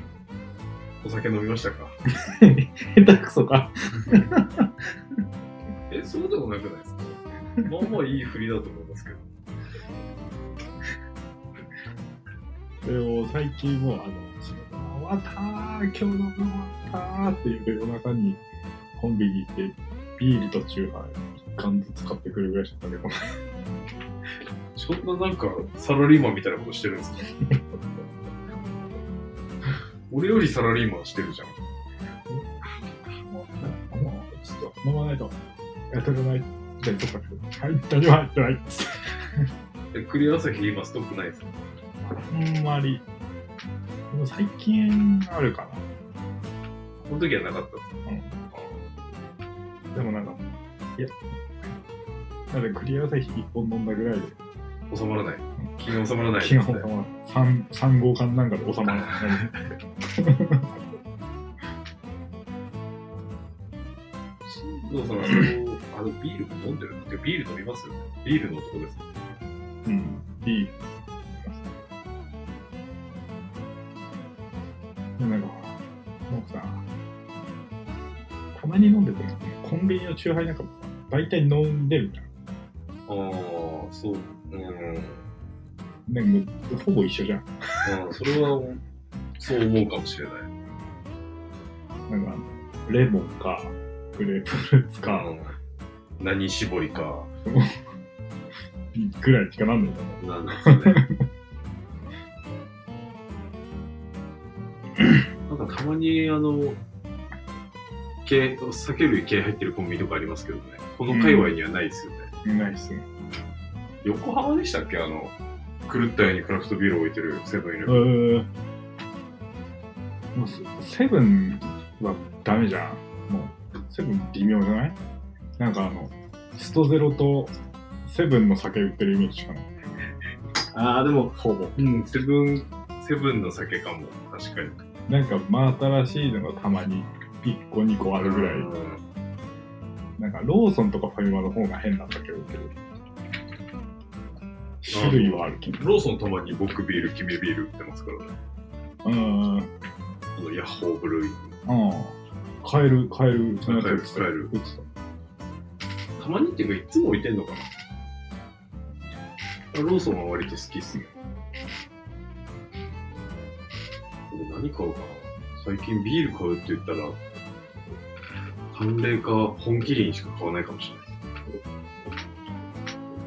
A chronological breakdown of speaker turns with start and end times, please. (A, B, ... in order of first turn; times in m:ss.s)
0:01.0-0:02.0 A
0:02.1-0:05.2 B
0:05.9-0:09.2 A
0:12.8-0:18.4 B
0:19.0-0:23.4 B
0:24.8-0:27.3 A
0:30.1-0:31.6 A
0:33.1-0:35.4 B
0:35.9-0:39.5 B
0:39.9-0:41.6 A
0:42.1-0:43.0 B
0:44.1-0:45.9 B
0:47.0-0:47.9 A
0:48.1-0:48.7 B
0:49.9-0:50.4 B
0:52.5-0:54.4 B
0:54.9-0:56.9 A
0:56.4-0:59.5 B
0:58.9-0:59.6 A
1:00.0-1:00.7 B
1:04.4-1:09.0 A
1:09.8-1:10.8 B
1:11.3-1:11.7 B
1:15.2-1:15.8 B
1:16.3-1:16.8 B
1:18.5-1:22.3 B
1:23.1-1:25.2 A
1:26.1-1:27.5 B
1:27.8-1:28.8 A
1:29.4-1:30.5 A
1:32.1-1:35.3 B
1:35.1-1:35.6 A
1:36.2-1:37.3 A
1:37.5-1:37.7 B
1:38.9-1:41.2 B
1:40.2-1:41.0 A
1:45.5-1:46.8 A
1:48.2-1:52.3 A
1:51.1-1:51.6 B
1:52.4-1:53.1 B
1:54.0-1:55.4 A
1:55.9-1:58.0 A
1:57.9-1:58.5 B
2:00.3-2:05.0 B
2:05.6-2:09.7 B
2:10.7-2:14.8 A
2:11.4-2:11.8 B
2:15.1-2:18.7 B
2:18.2-2:19.0 A
2:20.2-2:22.7 B
2:24.8-2:25.8 B
2:24.9-2:28.3 A
2:29.0-2:29.7 B
2:30.4-2:31.6 A
2:31.7-2:34.9 B
2:33.6-2:34.5 A
2:36.2-2:37.7 A
2:39.7-2:41.1 A
2:44.3-2:47.2 A
2:48.7-2:51.2 A